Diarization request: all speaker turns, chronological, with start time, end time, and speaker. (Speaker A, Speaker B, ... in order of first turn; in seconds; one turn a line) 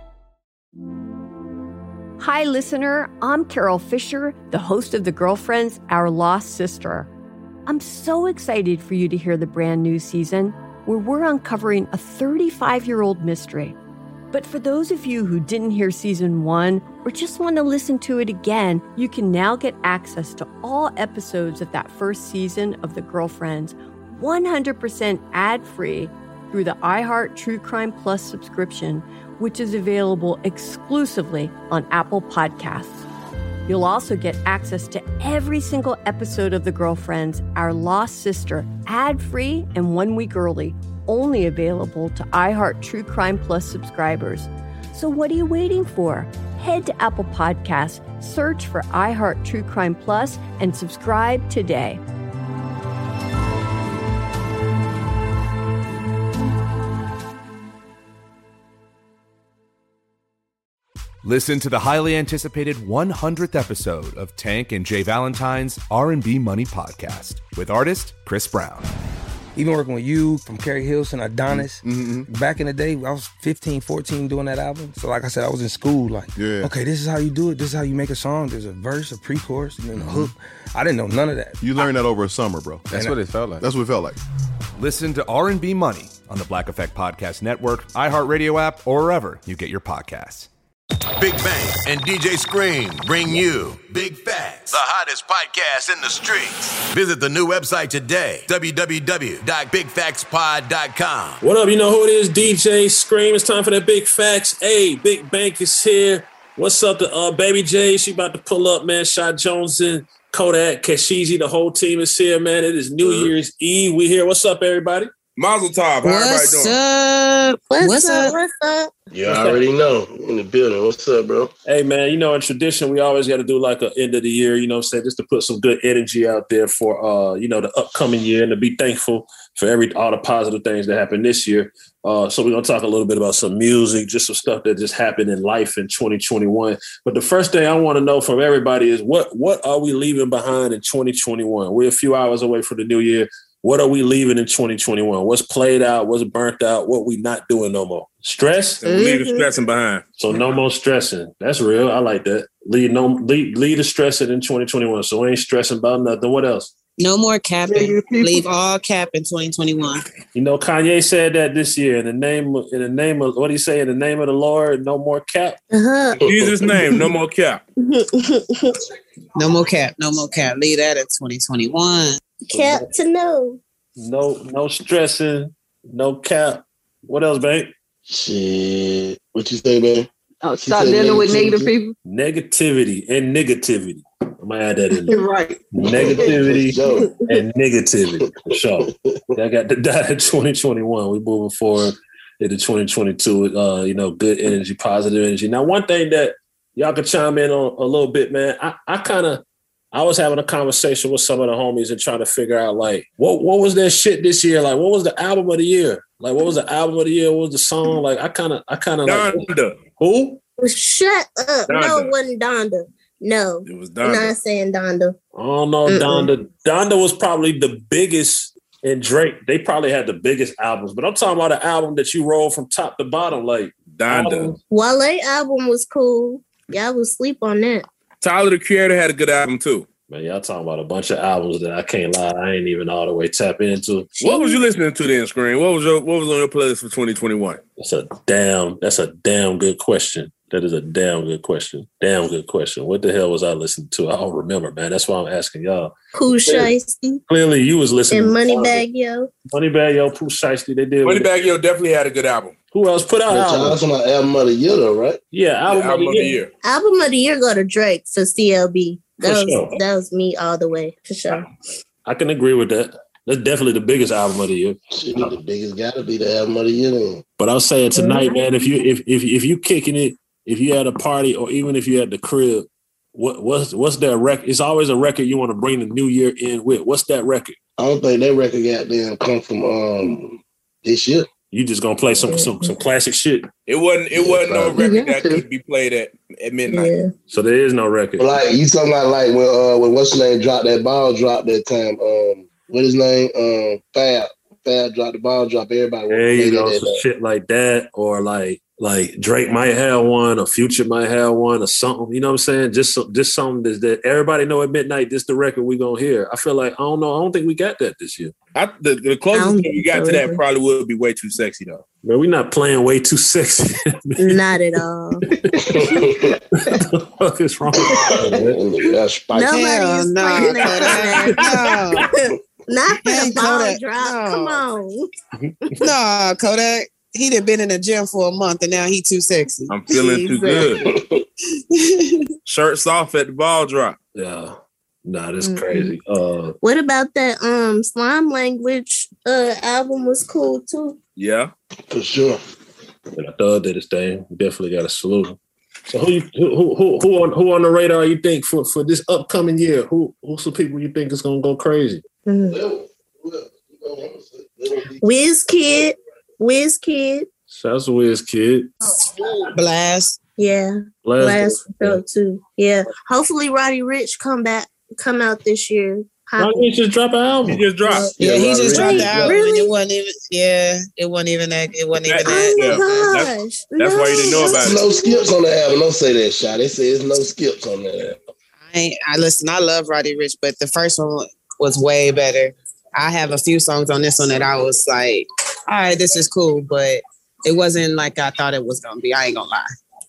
Speaker A: 2.2-7.1
Speaker A: 7.7-13.8
Speaker A: 14.3-33.0
Speaker A: 33.7-52.0
Speaker B: 61.2-68.9
Speaker C: 69.6-81.6
Speaker D: 71.5-72.3
Speaker D: 76.4-76.7
Speaker D: 80.0-80.3
Speaker D: 81.6-84.2
Speaker C: 82.9-83.2
Speaker B: 84.8-90.5
Speaker E: 91.2-101.4
Speaker F: 101.4-115.1
Speaker G: 115.4-116.8
Speaker H: 116.0-118.3
Speaker I: 117.7-118.9
Speaker J: 119.1-121.5
Speaker F: 119.2-119.6
Speaker F: 121.7-148.8
Speaker G: 148.8-150.0
Speaker I: 148.8-149.5
Speaker F: 150.2-156.7
Speaker H: 157.0-160.1
Speaker K: 157.7-158.5
Speaker F: 160.3-165.6
Speaker I: 165.7-166.9
Speaker G: 166.2-167.6
Speaker I: 167.8-168.7
Speaker H: 169.4-172.2
Speaker I: 172.4-173.6
Speaker F: 172.6-172.9
Speaker F: 174.0-177.7
Speaker J: 178.1-180.1
Speaker K: 180.4-181.9
Speaker J: 180.6-181.7
Speaker F: 182.1-185.2
Speaker K: 185.1-185.7
Speaker F: 185.7-210.4
Speaker J: 185.8-187.1
Speaker G: 209.1-209.8
Speaker I: 210.6-215.2
Speaker G: 211.7-212.1
Speaker G: 213.7-214.3
Speaker F: 215.3-224.6
Speaker I: 215.9-216.3
Speaker G: 223.9-224.6
Speaker I: 224.7-227.9
Speaker G: 228.2-229.9
Speaker F: 230.1-234.2
Speaker G: 234.2-237.6
Speaker I: 234.2-234.6
Speaker F: 237.8-245.9
Speaker I: 246.1-247.2
Speaker F: 247.3-248.8
Speaker I: 248.1-249.3
Speaker F: 249.5-251.3
Speaker G: 251.1-252.5
Speaker F: 252.7-253.8
Speaker J: 253.3-255.2
Speaker F: 255.3-256.4
Speaker G: 255.7-256.5
Speaker I: 256.6-261.5
Speaker F: 259.2-259.8
Speaker F: 262.1-265.3
Speaker J: 264.9-267.2
Speaker F: 267.4-277.6
Speaker I: 267.9-268.5
Speaker J: 277.8-281.3
Speaker F: 281.5-283.5
Speaker I: 282.2-282.7
Speaker G: 283.7-286.9
Speaker J: 284.1-284.8
Speaker K: 284.8-285.4
Speaker I: 286.7-287.1
Speaker F: 287.3-288.3
Speaker J: 288.2-297.0
Speaker F: 296.1-308.3
Speaker G: 308.6-311.8
Speaker I: 309.3-310.4
Speaker F: 312.0-314.4
Speaker I: 314.2-315.2
Speaker F: 315.3-315.7
Speaker J: 315.7-316.4
Speaker F: 316.6-318.6
Speaker J: 318.0-319.6
Speaker I: 319.3-321.5
Speaker H: 319.5-322.0
Speaker F: 321.7-322.0
Speaker I: 322.7-325.1
Speaker H: 323.0-324.5
Speaker H: 325.8-330.0
Speaker G: 329.7-330.9
Speaker I: 330.0-330.7
Speaker J: 330.8-331.2
Speaker G: 332.5-334.0
Speaker F: 334.1-336.6
Speaker I: 335.4-336.0
Speaker I: 336.6-341.0
Speaker G: 341.2-341.5
Speaker J: 341.9-342.4
Speaker F: 343.1-345.4
Speaker F: 345.9-352.0
Speaker I: 352.3-352.6
Speaker J: 352.5-355.0
Speaker I: 355.0-357.3
Speaker F: 357.5-358.7
Speaker H: 359.6-360.2
Speaker I: 360.4-366.7
Speaker F: 361.0-362.0
Speaker F: 366.4-367.6
Speaker G: 367.5-369.2
Speaker I: 367.8-369.7
Speaker J: 368.2-369.4
Speaker H: 368.4-372.8
Speaker G: 372.0-374.9
Speaker I: 372.2-375.3
Speaker J: 374.6-378.2
Speaker H: 378.6-389.7